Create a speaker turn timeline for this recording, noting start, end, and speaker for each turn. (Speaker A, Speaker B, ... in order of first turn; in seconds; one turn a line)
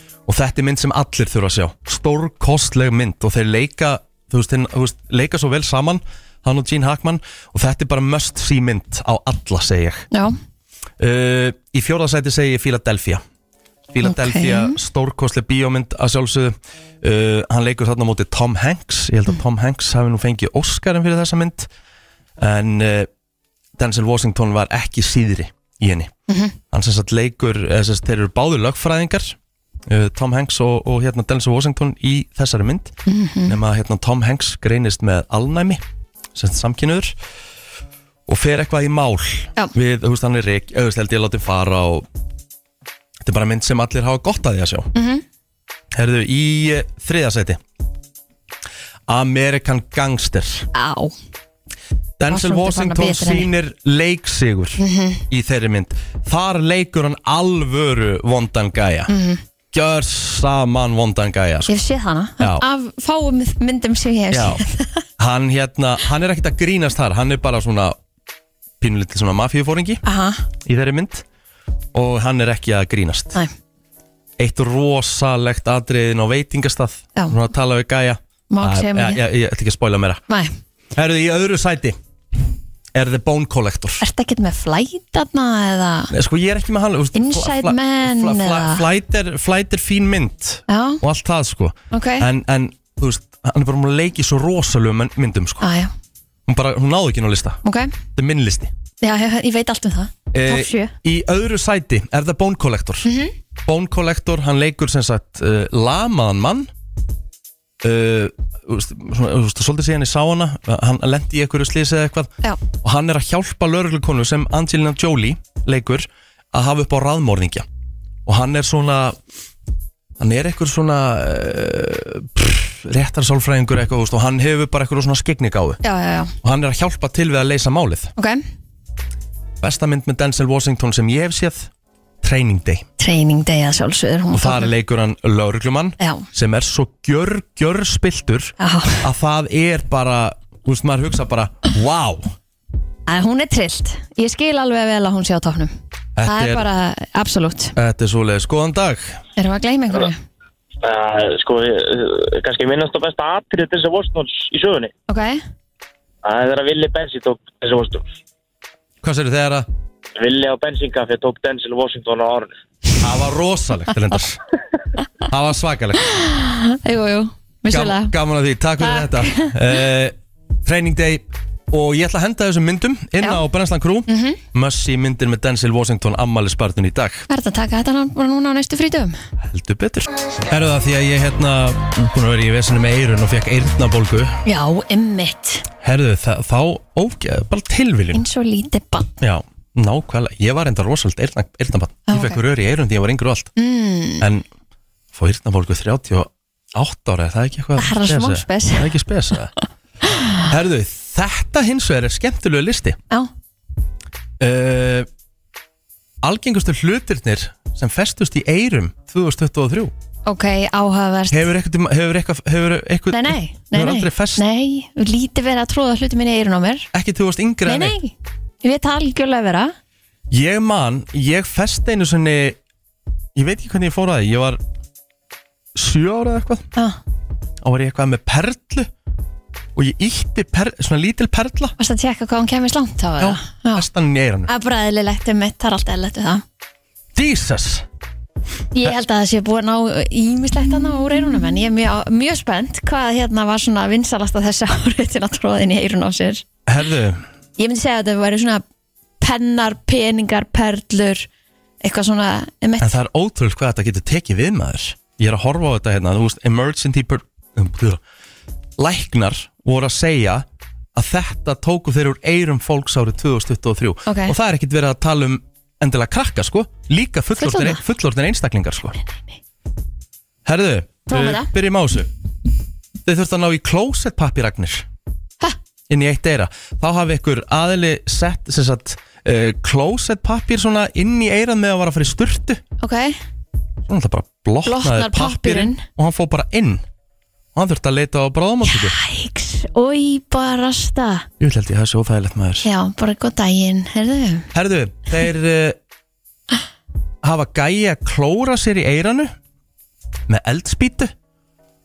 Speaker A: 0.2-10.1
Speaker A: 11.0-13.2
Speaker A: 13.9-21.7
Speaker B: 14.0-14.8
Speaker A: 22.4-23.1
Speaker A: 23.8-26.1
Speaker B: 26.3-26.5
Speaker A: 26.7-35.8
Speaker B: 33.0-33.6
Speaker A: 36.3-37.1
Speaker A: 38.3-42.0
Speaker A: 43.2-44.9
Speaker B: 44.9-45.2
Speaker A: 45.9-47.6
Speaker A: 49.1-50.7
Speaker B: 50.7-51.1
Speaker A: 52.2-59.1
Speaker B: 52.3-53.5
Speaker B: 54.8-55.2
Speaker B: 59.1-59.4
Speaker A: 59.7-61.7
Speaker B: 61.7-65.0
Speaker A: 62.4-62.6
Speaker A: 64.3-64.6
Speaker A: 65.2-68.0
Speaker A: 68.8-70.0
Speaker B: 70.0-70.5
Speaker A: 70.6-71.2
Speaker A: 71.9-73.4
Speaker A: 74.4-80.2
Speaker B: 78.5-79.2
Speaker A: 80.9-82.0
Speaker A: 82.9-84.0
Speaker B: 84.0-86.1
Speaker A: 86.1-95.7
Speaker B: 87.1-88.8
Speaker B: 90.7-91.0
Speaker B: 91.9-92.3
Speaker B: 95.6-95.9
Speaker A: 96.5-97.6
Speaker B: 97.6-97.9
Speaker A: 98.1-98.7
Speaker B: 99.0-100.9
Speaker A: 100.3-103.1
Speaker B: 103.0-103.3
Speaker A: 103.6-106.7
Speaker A: 107.8-117.6
Speaker A: 118.2-119.2
Speaker A: 120.2-125.8
Speaker B: 125.8-126.3
Speaker A: 126.4-128.1
Speaker A: 129.6-131.7
Speaker A: 132.2-132.8
Speaker B: 133.0-134.7
Speaker A: 134.3-142.3
Speaker B: 136.0-136.2
Speaker B: 138.6-139.0
Speaker B: 143.1-145.7
Speaker A: 146.2-146.7
Speaker B: 146.2-147.7
Speaker A: 147.8-149.2
Speaker B: 149.4-150.2
Speaker C: 150.8-154.9
Speaker B: 155.1-155.4
Speaker C: 156.2-158.2
Speaker A: 159.0-159.7
Speaker C: 160.2-162.5
Speaker A: 163.0-164.4
Speaker A: 165.3-166.1
Speaker B: 166.0-168.1
Speaker A: 167.7-177.2
Speaker B: 168.8-169.5
Speaker B: 174.1-174.4
Speaker B: 177.3-179.2
Speaker A: 179.4-184.4
Speaker B: 184.4-185.7
Speaker A: 185.8-188.2
Speaker B: 188.1-189.1
Speaker A: 189.2-193.5
Speaker B: 192.1-192.4
Speaker B: 193.6-194.2
Speaker A: 194.2-194.4
Speaker A: 195.1-199.5
Speaker B: 197.8-198.9
Speaker B: 200.1-200.4
Speaker A: 200.4-203.0
Speaker A: 204.4-205.1
Speaker A: 206.2-209.9
Speaker B: 210.2-211.5
Speaker A: 211.3-214.4
Speaker B: 213.1-216.9
Speaker A: 216.9-217.9
Speaker B: 217.7-219.7
Speaker A: 220.3-222.6
Speaker A: 223.3-224.6
Speaker A: 225.7-226.7
Speaker A: 227.6-228.9
Speaker A: 229.8-231.7
Speaker B: 231.8-233.8
Speaker A: 233.2-234.5
Speaker B: 234.4-236.4
Speaker A: 237.1-237.8
Speaker B: 238.7-246.4
Speaker A: 246.7-247.2
Speaker B: 247.6-248.6
Speaker B: 249.2-251.3
Speaker B: 251.8-252.9
Speaker A: 252.8-258.0
Speaker A: 258.8-269.0
Speaker B: 264.1-264.3
Speaker B: 267.4-267.8
Speaker A: 270.4-272.1
Speaker B: 271.1-271.5
Speaker A: 273.0-274.9
Speaker A: 275.9-282.6
Speaker B: 282.8-283.2
Speaker A: 283.9-286.8
Speaker B: 284.6-285.8
Speaker A: 287.5-288.9
Speaker B: 288.6-291.3
Speaker A: 291.4-292.7
Speaker B: 292.6-294.5
Speaker A: 294.5-295.8
Speaker A: 297.2-299.3
Speaker A: 300.3-301.1